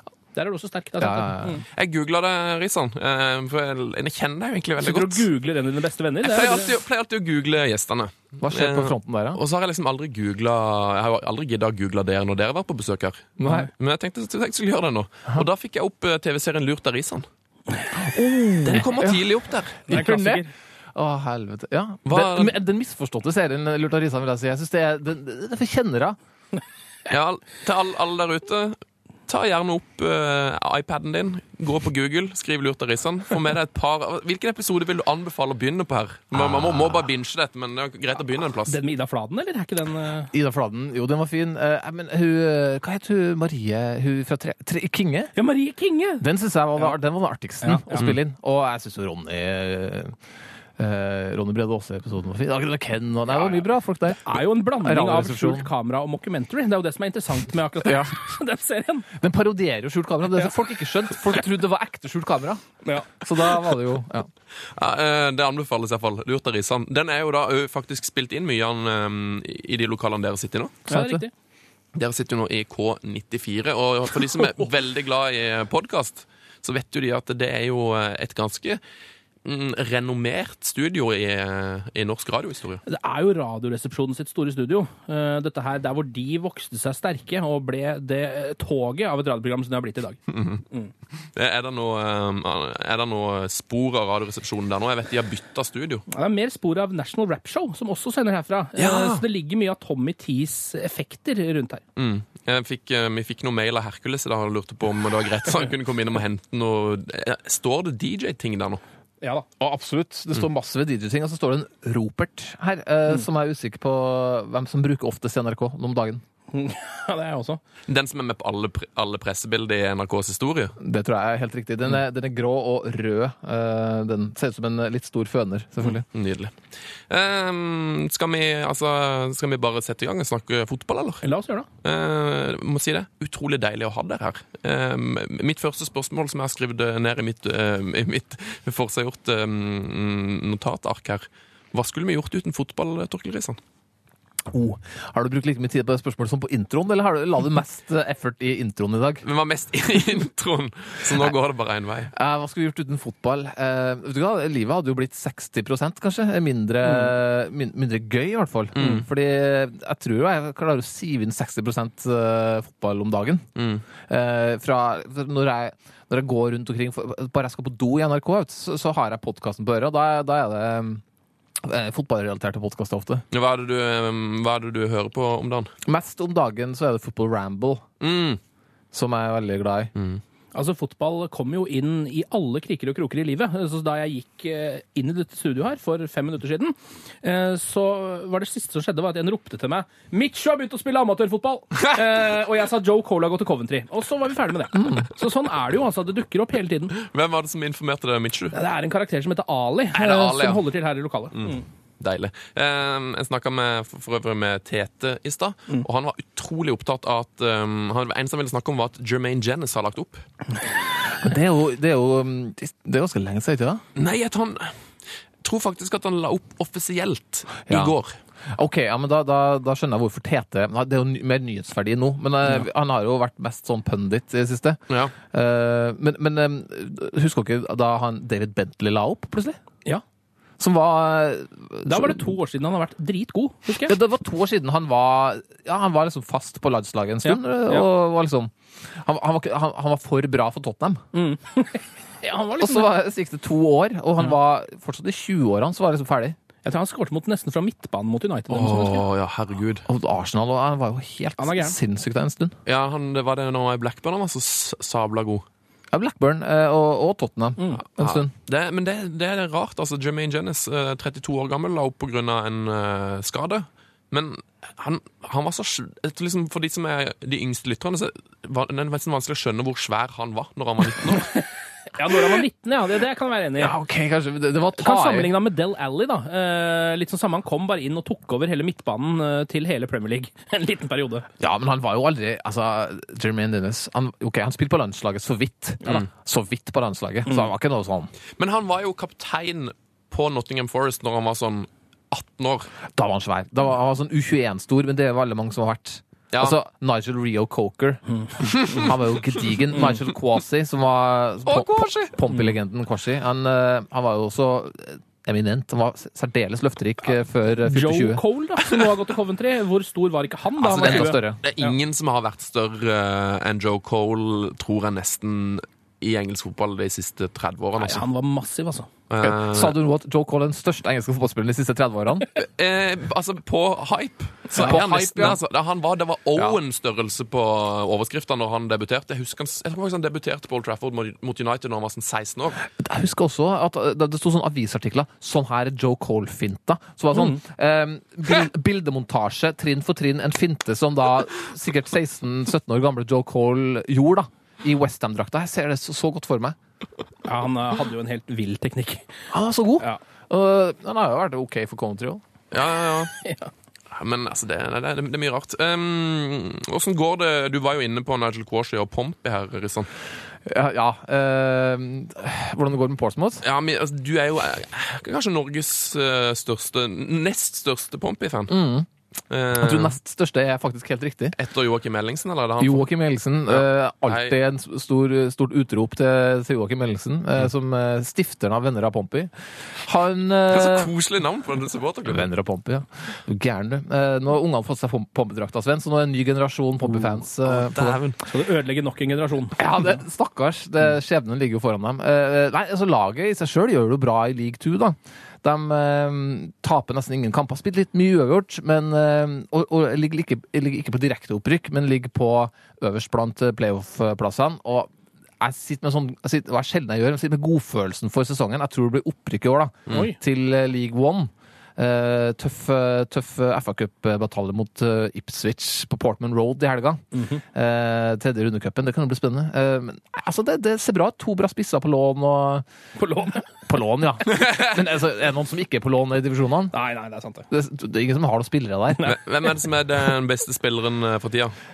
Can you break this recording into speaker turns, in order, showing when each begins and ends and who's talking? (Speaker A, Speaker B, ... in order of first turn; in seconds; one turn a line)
Speaker A: 0.3-1.6
Speaker B: 1.0-1.6
Speaker C: 1.7-5.2
Speaker A: 4.8-6.7
Speaker C: 6.2-17.2
Speaker B: 8.4-9.4
Speaker B: 13.4-13.7
Speaker B: 17.9-19.2
Speaker C: 18.6-19.9
Speaker A: 19.9-20.5
Speaker B: 19.9-26.2
Speaker C: 22.1-22.5
Speaker C: 27.1-28.8
Speaker C: 29.3-38.8
Speaker B: 36.3-37.0
Speaker A: 38.7-40.3
Speaker B: 40.3-45.3
Speaker A: 45.4-46.2
Speaker B: 46.2-50.1
Speaker A: 47.6-48.0
Speaker B: 50.8-55.7
Speaker A: 53.3-53.6
Speaker A: 54.2-59.1
Speaker B: 57.8-58.1
Speaker B: 59.1-64.3
Speaker C: 64.7-70.8
Speaker A: 70.9-71.3
Speaker B: 70.9-71.2
Speaker C: 71.9-78.8
Speaker C: 79.4-82.8
Speaker A: 82.8-90.2
Speaker C: 90.3-90.6
Speaker C: 91.3-96.0
Speaker A: 96.1-101.8
Speaker C: 98.8-99.2
Speaker C: 102.0-108.8
Speaker A: 109.2-109.5
Speaker B: 109.6-116.2
Speaker A: 116.5-117.6
Speaker C: 117.9-120.8
Speaker B: 120.8-126.0
Speaker C: 126.1-126.6
Speaker C: 127.1-131.2
Speaker A: 131.2-131.7
Speaker C: 131.8-143.6
Speaker B: 144.5-149.2
Speaker C: 149.2-152.1
Speaker B: 152.1-163.5
Speaker A: 156.8-157.1
Speaker C: 158.8-159.1
Speaker C: 163.6-163.8
Speaker B: 164.1-171.0
Speaker B: 171.6-173.2
Speaker C: 173.3-175.7
Speaker B: 175.8-177.8
Speaker C: 178.0-178.4
Speaker B: 178.9-179.9
Speaker C: 180.0-180.2
Speaker A: 180.5-196.9
Speaker C: 197.0-198.5
Speaker A: 198.5-201.6
Speaker C: 199.9-200.6
Speaker C: 201.3-210.2
Speaker B: 211.2-213.8
Speaker C: 213.9-214.7
Speaker C: 215.4-218.1
Speaker B: 217.7-218.0
Speaker B: 218.5-229.6
Speaker B: 230.6-232.3
Speaker A: 231.9-234.0
Speaker B: 233.8-241.0
Speaker A: 237.2-237.9
Speaker A: 241.1-242.9
Speaker B: 242.6-246.3
Speaker A: 246.6-249.0
Speaker C: 248.5-249.8
Speaker B: 249.9-252.6
Speaker A: 251.4-251.8
Speaker C: 252.7-255.4
Speaker B: 255.9-258.3
Speaker C: 258.0-271.3
Speaker A: 271.4-273.7
Speaker B: 273.6-275.3
Speaker A: 274.8-281.3
Speaker B: 281.4-288.1
Speaker C: 288.4-292.7
Speaker B: 292.9-308.2
Speaker C: 301.5-302.2
Speaker A: 307.6-311.8
Speaker C: 310.6-318.0
Speaker B: 310.8-311.4
Speaker A: 317.8-318.9
Speaker C: 319.1-319.8
Speaker B: 319.2-322.4
Speaker C: 322.4-332.6
Speaker B: 324.5-325.4
Speaker B: 332.8-346.6
Speaker A: 337.1-337.4
Speaker A: 347.2-349.1
Speaker B: 349.3-352.2
Speaker C: 352.5-353.1
Speaker A: 353.2-353.5
Speaker C: 353.9-359.9
Speaker B: 360.4-363.4
Speaker C: 363.4-368.6
Speaker B: 368.5-368.9
Speaker C: 369.3-370.0
Speaker B: 369.5-371.4
Speaker C: 371.4-372.9
Speaker B: 372.6-380.9
Speaker C: 373.5-374.4
Speaker C: 380.5-382.3
Speaker B: 382.1-388.0
Speaker C: 387.4-388.2
Speaker A: 388.2-389.6
Speaker B: 389.6-422.6
Speaker A: 409.9-410.2
Speaker A: 417.1-417.4
Speaker A: 423.0-423.4
Speaker B: 423.6-426.8
Speaker A: 426.7-427.5
Speaker B: 427.5-429.1
Speaker C: 429.1-431.5